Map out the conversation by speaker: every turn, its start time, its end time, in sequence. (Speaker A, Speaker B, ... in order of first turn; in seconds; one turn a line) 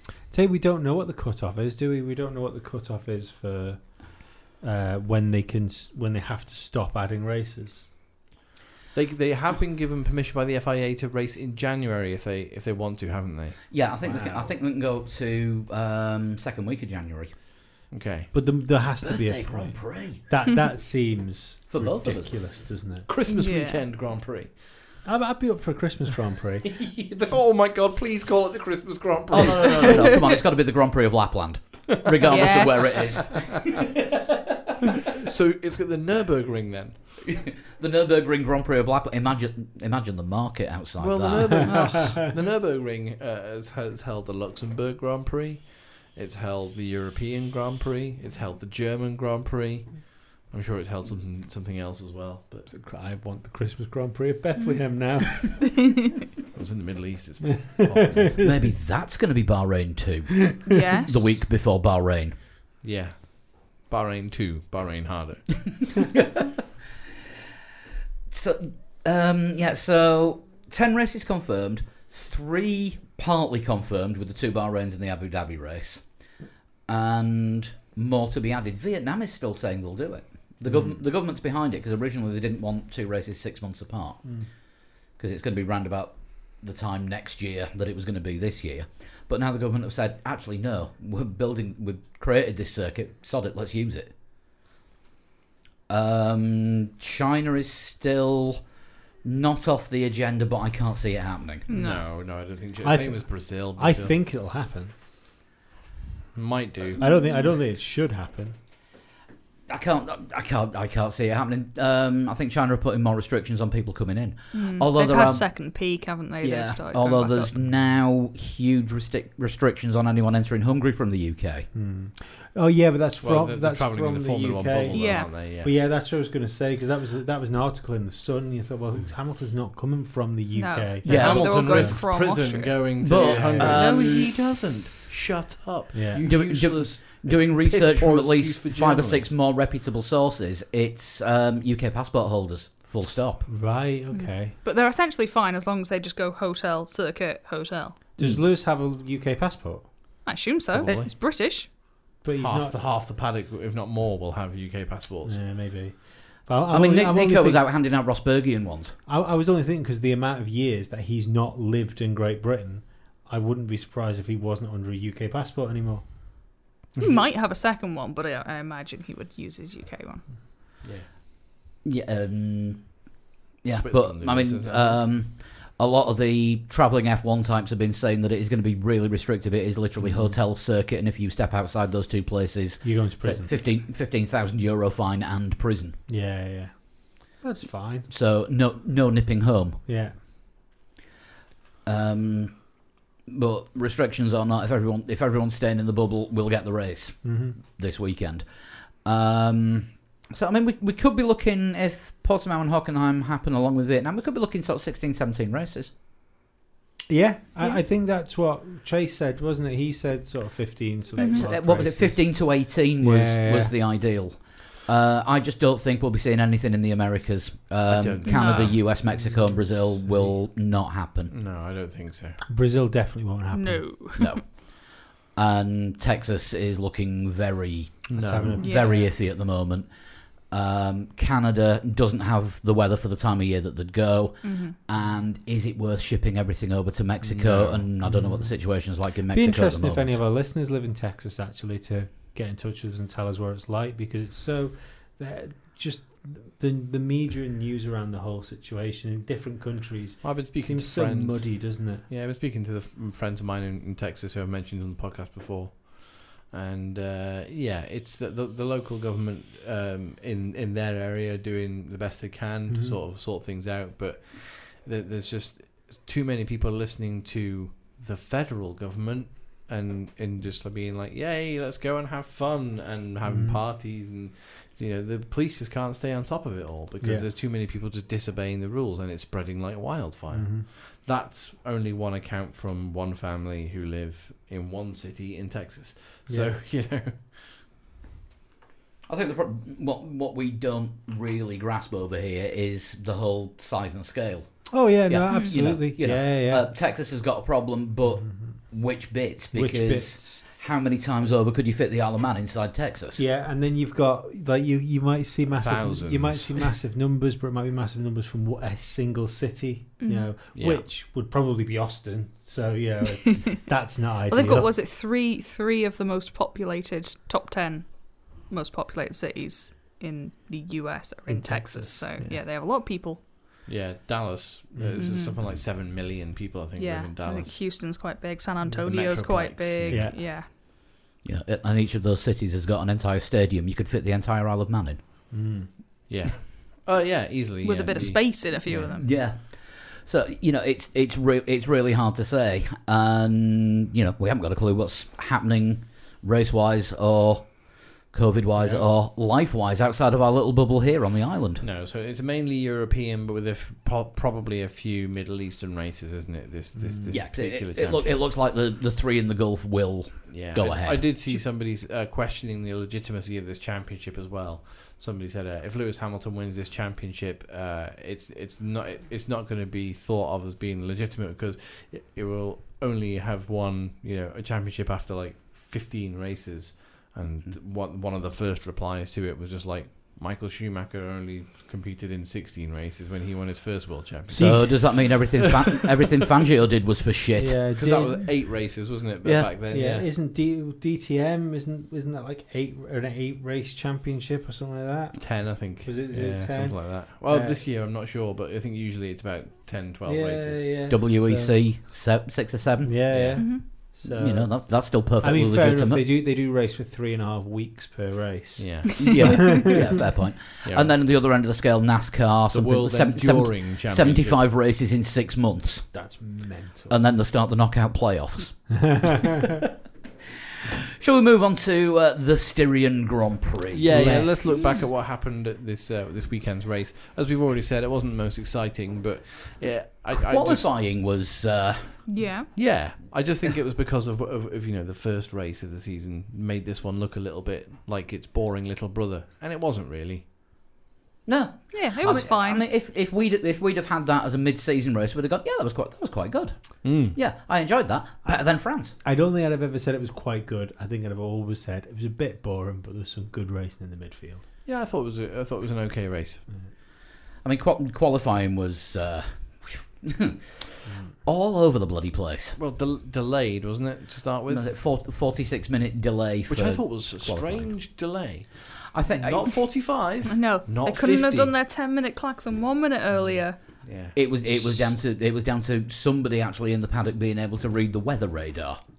Speaker A: 0.3-7.9
Speaker B: 8.9-13.7
Speaker C: 13.7-17.3
Speaker A: 14.0-14.5
Speaker B: 17.9-18.3
Speaker A: 18.3-23.1
Speaker C: 19.0-20.2
Speaker C: 21.7-22.4
Speaker B: 23.1-24.6
Speaker D: 23.3-23.8
Speaker A: 25.0-26.7
Speaker B: 26.8-30.3
Speaker C: 29.3-33.9
Speaker D: 29.8-30.2
Speaker B: 32.0-33.4
Speaker D: 32.2-33.3
Speaker B: 35.1-37.0
Speaker C: 37.2-41.7
Speaker B: 41.0-52.7
Speaker D: 41.6-42.0
Speaker A: 52.7-55.5
Speaker D: 55.4-56.1
Speaker B: 56.5-58.4
Speaker A: 58.0-58.6
Speaker C: 58.4-62.3
Speaker D: 60.7-61.4
Speaker B: 62.8-65.8
Speaker C: 68.3-76.0
Speaker C: 76.9-84.3
Speaker A: 84.2-84.5
Speaker C: 85.0-94.1
Speaker C: 95.9-98.6
Speaker C: 99.2-101.7
Speaker D: 101.7-102.0
Speaker B: 101.7-104.2
Speaker A: 102.8-104.9
Speaker B: 106.3-107.0
Speaker D: 107.0-107.5
Speaker A: 107.0-108.5
Speaker C: 109.7-115.5
Speaker D: 114.5-117.5
Speaker C: 116.4-121.7
Speaker A: 121.7-131.0
Speaker B: 123.2-125.7
Speaker D: 124.9-125.3
Speaker D: 130.5-133.1
Speaker C: 131.0-132.0
Speaker B: 131.1-139.4
Speaker A: 131.7-132.0
Speaker C: 133.0-134.3
Speaker A: 133.1-133.9
Speaker A: 135.9-136.2
Speaker C: 136.2-143.5
Speaker A: 143.5-144.5
Speaker D: 144.1-148.0
Speaker A: 148.2-149.9
Speaker D: 150.2-151.7
Speaker B: 150.7-151.1
Speaker A: 152.2-152.7
Speaker B: 152.4-155.4
Speaker A: 155.2-157.6
Speaker C: 156.7-158.9
Speaker A: 159.1-166.1
Speaker D: 167.0-170.3
Speaker B: 170.8-171.1
Speaker C: 171.8-186.0
Speaker B: 173.7-175.0
Speaker A: 180.0-180.4
Speaker A: 182.8-183.5
Speaker A: 186.1-188.1
Speaker C: 188.1-189.8
Speaker A: 189.9-190.2
Speaker C: 191.8-198.4
Speaker A: 197.2-197.6
Speaker C: 199.0-205.9
Speaker A: 207.1-213.7
Speaker D: 211.2-211.4
Speaker C: 211.2-221.3
Speaker B: 217.8-218.8
Speaker D: 218.2-218.8
Speaker A: 219.1-220.4
Speaker B: 221.3-222.4
Speaker A: 222.5-223.9
Speaker D: 223.5-224.4
Speaker C: 224.2-229.9
Speaker B: 228.1-228.6
Speaker A: 228.1-229.1
Speaker D: 228.6-229.1
Speaker C: 230.5-240.2
Speaker D: 234.4-234.7
Speaker A: 237.3-252.1
Speaker B: 237.4-237.8
Speaker B: 250.2-287.5
Speaker A: 262.7-263.0
Speaker A: 273.2-273.6
Speaker A: 277.0-277.2
Speaker A: 280.3-280.6
Speaker A: 286.3-286.5
Speaker C: 289.1-303.2
Speaker A: 294.7-296.7
Speaker D: 295.3-295.5
Speaker A: 298.1-298.5
Speaker A: 299.5-300.4
Speaker A: 303.1-314.7
Speaker B: 305.5-306.7
Speaker D: 310.0-310.3
Speaker B: 310.5-310.8
Speaker D: 314.3-323.2
Speaker A: 321.3-322.4
Speaker B: 323.6-327.6
Speaker A: 324.7-325.1
Speaker D: 324.9-325.3
Speaker D: 326.8-330.5
Speaker B: 328.8-330.1
Speaker A: 329.9-330.2
Speaker C: 331.2-335.0
Speaker A: 335.3-335.7
Speaker B: 336.1-338.9
Speaker D: 337.6-339.1
Speaker C: 338.7-351.6
Speaker B: 351.6-358.1
Speaker A: 356.7-357.2
Speaker C: 357.1-361.1
Speaker B: 360.3-385.9
Speaker C: 384.3-387.7
Speaker A: 384.3-385.1
Speaker A: 387.4-388.3
Speaker B: 387.7-390.1
Speaker C: 389.2-389.5
Speaker A: 389.7-397.6
Speaker B: 395.2-400.8
Speaker A: 400.0-401.6
Speaker C: 400.9-406.0
Speaker A: 402.8-409.6
Speaker B: 403.1-403.4
Speaker D: 403.4-403.6
Speaker B: 408.6-409.1
Speaker C: 409.0-416.1
Speaker B: 410.6-410.9
Speaker B: 412.5-414.4
Speaker A: 415.9-417.0
Speaker C: 416.9-419.4
Speaker C: 421.0-424.5
Speaker B: 423.7-430.7
Speaker A: 423.9-424.4
Speaker D: 424.4-424.8
Speaker C: 430.1-432.2
Speaker D: 432.1-432.5
Speaker B: 432.5-440.2
Speaker C: 441.2-448.9
Speaker D: 441.7-442.6
Speaker B: 446.8-447.2
Speaker A: 448.2-454.4
Speaker B: 454.6-456.4
Speaker C: 457.4-462.6
Speaker A: 460.9-461.1
Speaker B: 462.6-464.7
Speaker C: 464.5-467.7
Speaker B: 466.5-471.5
Speaker C: 468.9-469.6
Speaker D: 470.1-473.6
Speaker B: 473.8-474.2
Speaker C: 474.1-478.8